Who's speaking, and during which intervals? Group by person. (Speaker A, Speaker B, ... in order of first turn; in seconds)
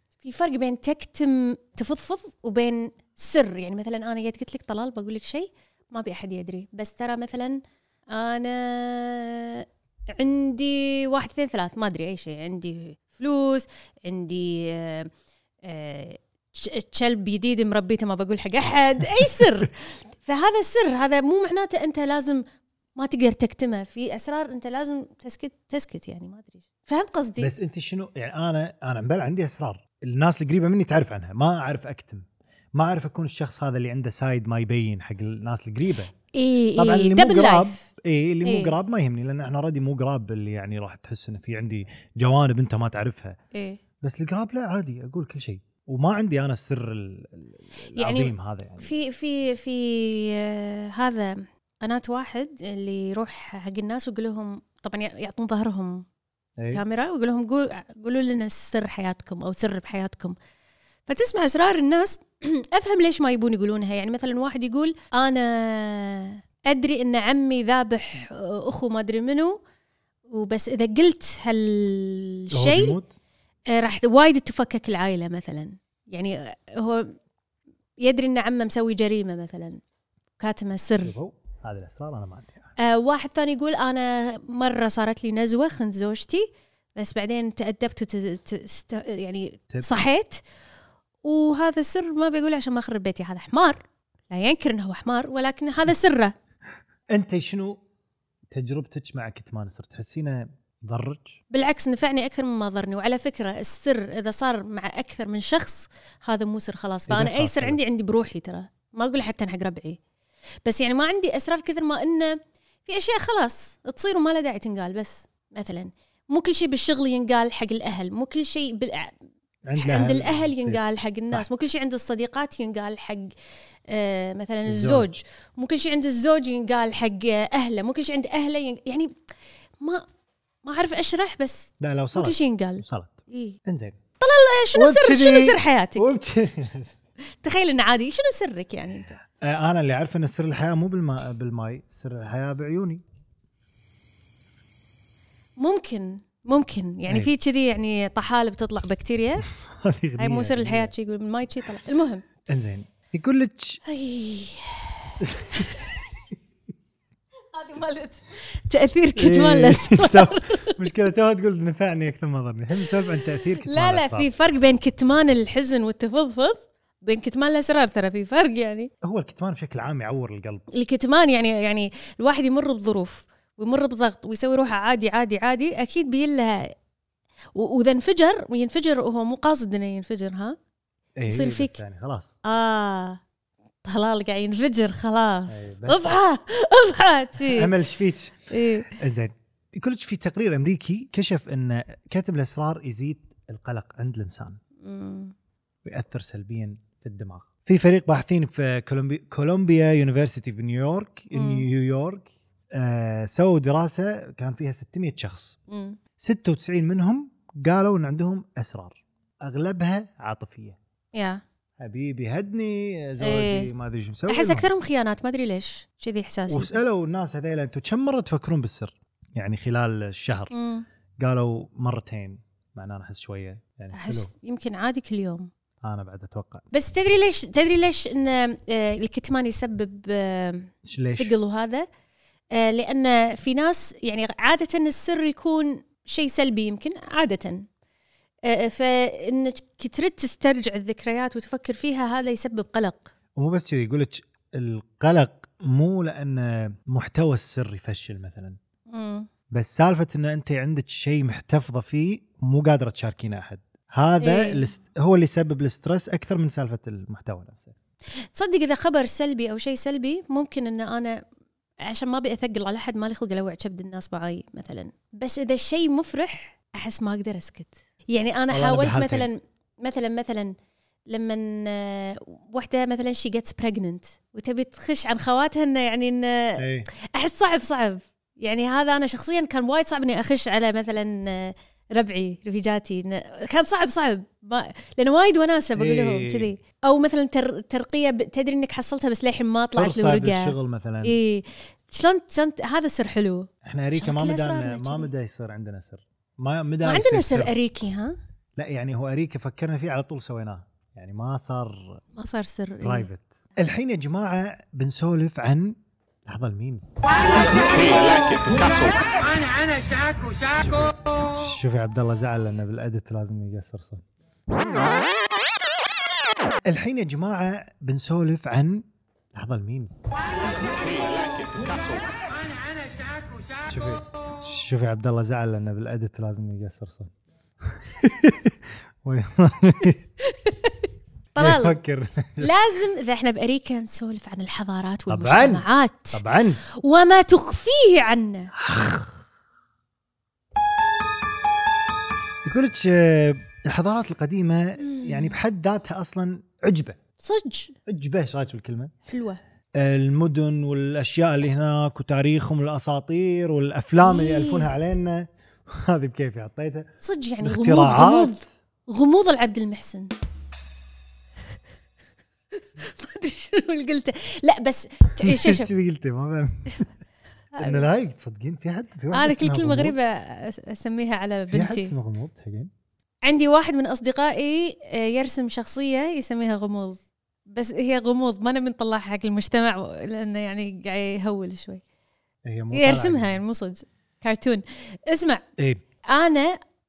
Speaker A: 0.2-15.1, 15.6-22.4, 23.0-27.5, 36.3-37.8, 38.5-38.7, 43.5-43.8, 48.0-56.0, 56.7-60.4, 61.1-69.6, 70.3-73.0, 73.7-77.1, 78.0-79.8, 80.4-81.2, 82.8-90.4, 91.2-96.3, 101.5-110.0, 110.7-119.1, 119.8-123.3, 123.9-129.1, 130.6-133.6, 134.2-136.1, 137.4-139.1, 145.6-149.5, 150.2-152.2, 153.8-155.9, 157.5-160.8, 163.1-168.9, 170.7-176.7, 177.6-180.6, 181.3-181.8, 182.4-183.2, 183.8-187.7, 188.5-188.9, 194.8-195.3, 201.3-201.7, 205.7-206.0, 211.1-211.4, 213.2-213.7, 214.3-216.7, 220.5-220.9, 223.9-225.5, 226.7-231.9, 232.5-237.6, 238.4-243.1, 248.9-249.3, 254.2-254.7, 258.3-261.2, 261.8-270.5, 271.1-295.1, 296.8-298.1, 302.2-303.1, 330.2-330.8, 331.4-331.8, 332.4-336.2, 336.7-338.5, 344.8-345.4, 347.2-347.8, 349.1-349.4, 354.0-354.7, 357.0-360.1, 362.8-365.7, 367.6-367.9, 369.1-371.9, 373.2-381.8, 382.7-385.4, 386.1-386.6
Speaker B: 27.4-36.1, 36.8-43.4, 44.0-48.9, 56.6-56.8, 72.5-73.1, 81.0-82.7, 89.7-90.0, 97.1-97.8, 98.5-101.4, 107.1-107.8, 119.7-121.5, 124.7-125.1, 131.8-134.0, 134.7-136.9, 139.4-143.0, 149.6-150.9, 152.5-153.8, 155.2-155.7, 159.2-164.3, 169.0-170.7, 181.2-182.4, 185.5-186.2, 187.4-194.6, 195.8-205.6, 206.2-210.8, 211.8-214.7, 216.5-220.5, 221.2-224.3, 225.8-226.7, 230.8-231.3, 243.4-248.6, 249.5-257.8, 268.5-269.3, 276.6-276.9, 285.8-286.5, 289.8-291.2, 293.6-297.6, 298.6-302.0, 302.8-306.9, 310.6-314.0, 316.6-320.0, 323.7-327.1, 327.7-330.0, 331.4-332.5, 335.1-336.6, 338.6-339.2, 342.4-347.0, 347.9-348.9, 349.8-356.9, 357.4-358.4, 365.2-366.9, 367.6-370.0, 371.5-372.7, 382.4-383.4
Speaker C: 307.4-309.2, 320.6-322.1